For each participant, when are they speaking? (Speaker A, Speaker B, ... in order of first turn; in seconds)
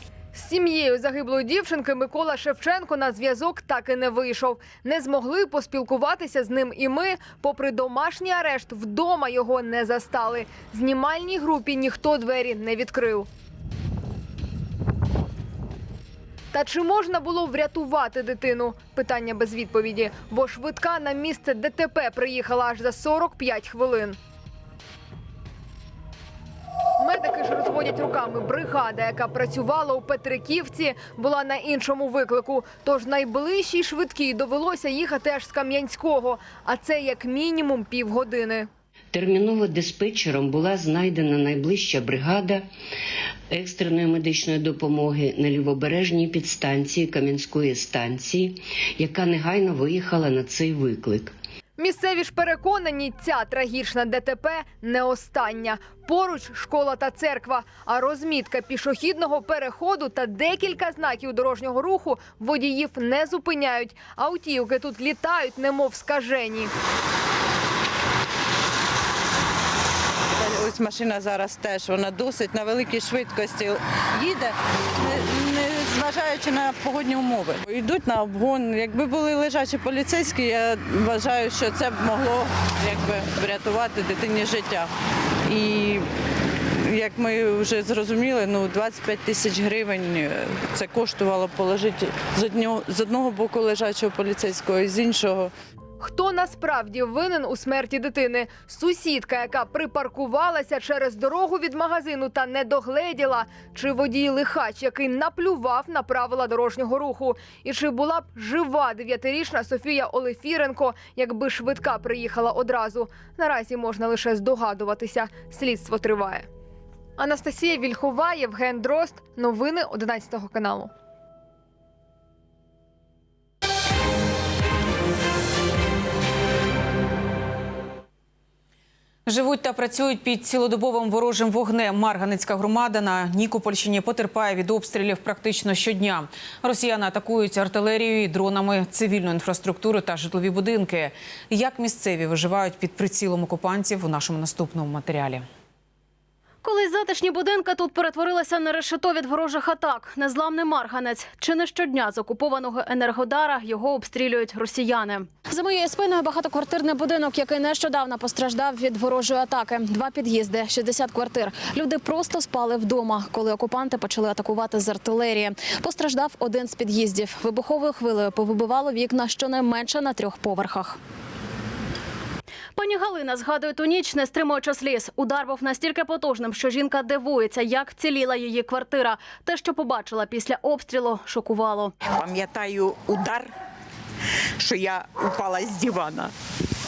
Speaker A: 0.3-13.3, 16.5-24.2, 27.0-38.7, 51.8-66.7, 96.0-116.5, 117.2-120.9
Speaker B: 39.1-42.7, 43.5-51.4
Speaker C: 70.4-84.9, 85.5-86.1, 86.7-95.5
Speaker D: 129.3-145.4
Speaker E: 146.6-171.0, 172.8-181.9
Speaker F: 182.0-183.5, 184.6-186.3